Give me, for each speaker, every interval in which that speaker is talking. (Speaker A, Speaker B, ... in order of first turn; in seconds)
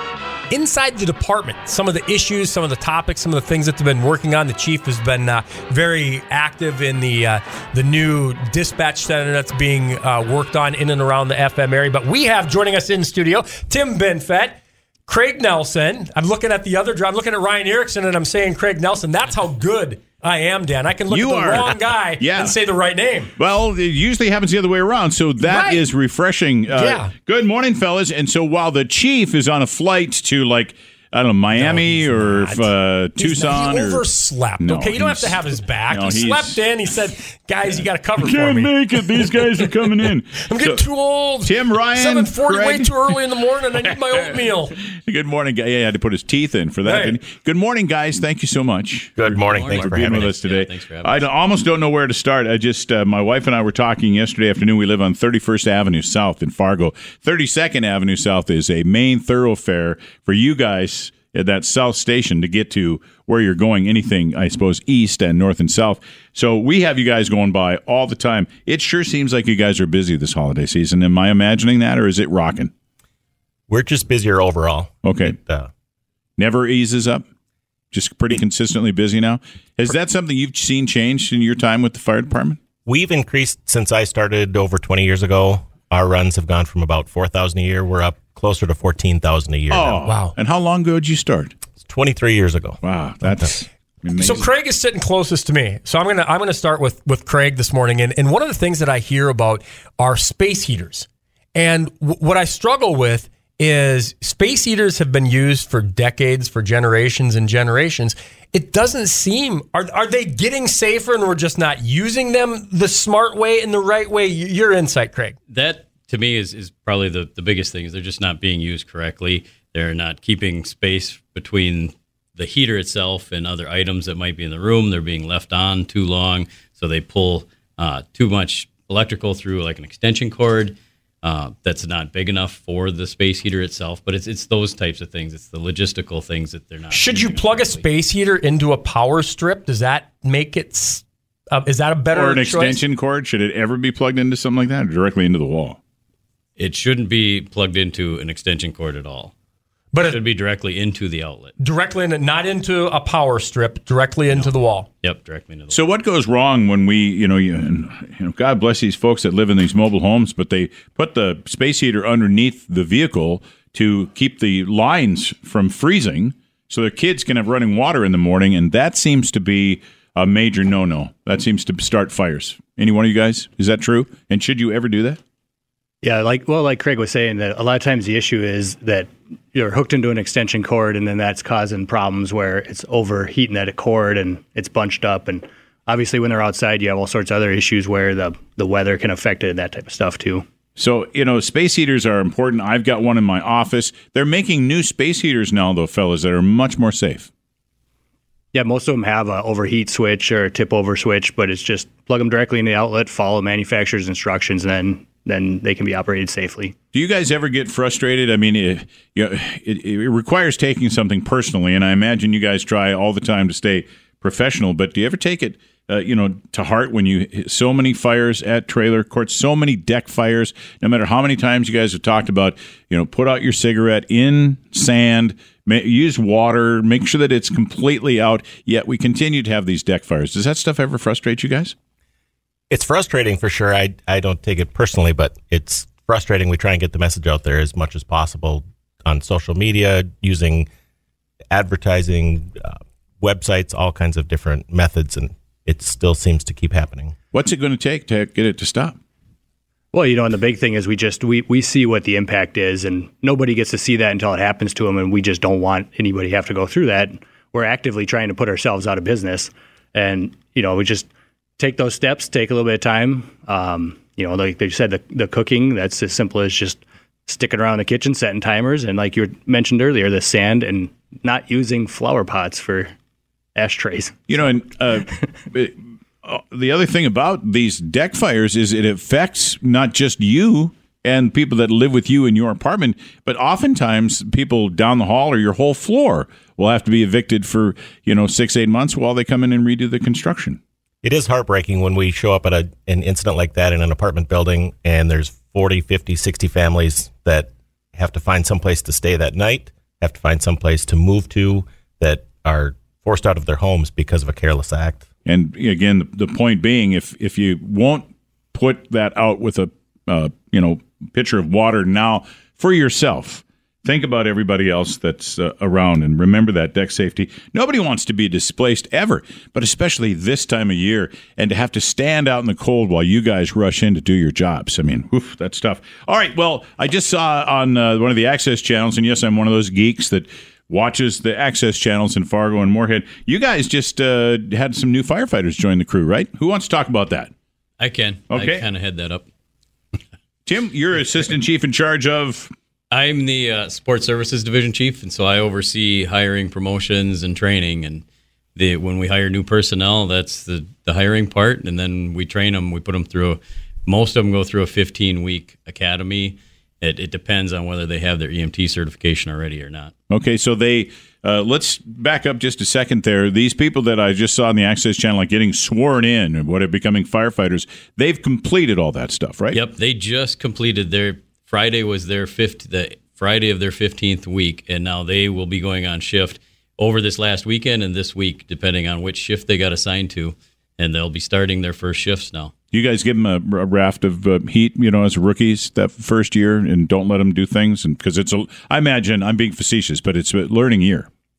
Speaker A: 0.5-23.3, 25.4-25.8, 26.7-27.1, 31.6-44.8, 46.8-47.2, 90.1-90.3, 94.1-115.4, 136.9-142.8, 149.9-150.2, 151.6-154.9
Speaker B: 21.1-22.6, 23.4-34.0, 34.6-36.6, 38.2-40.8, 41.4-43.1, 44.9-72.7, 75.0-75.4, 76.4-77.2, 77.9-82.6, 89.7-91.5, 92.8-94.5, 142.1-145.8, 155.7-175.2, 190.8-197.3, 206.9-231.7, 247.3-249.0, 274.3-290.6, 305.2-337.3, 338.3-338.6, 340.5-342.5, 360.1-369.6, 382.7-391.1
Speaker C: 49.2-50.3, 73.7-75.7, 82.8-90.1, 91.8-92.8, 232.7-240.7, 241.5-247.2, 291.0-305.1
Speaker D: 49.4-51.3, 115.5-137.8, 146.6-149.3, 150.0-151.5, 155.0-155.8, 337.8-339.2, 342.9-359.9, 369.5-382.5
Speaker E: 176.0-190.4, 198.5-206.8, 249.9-272.9, 273.6-274.2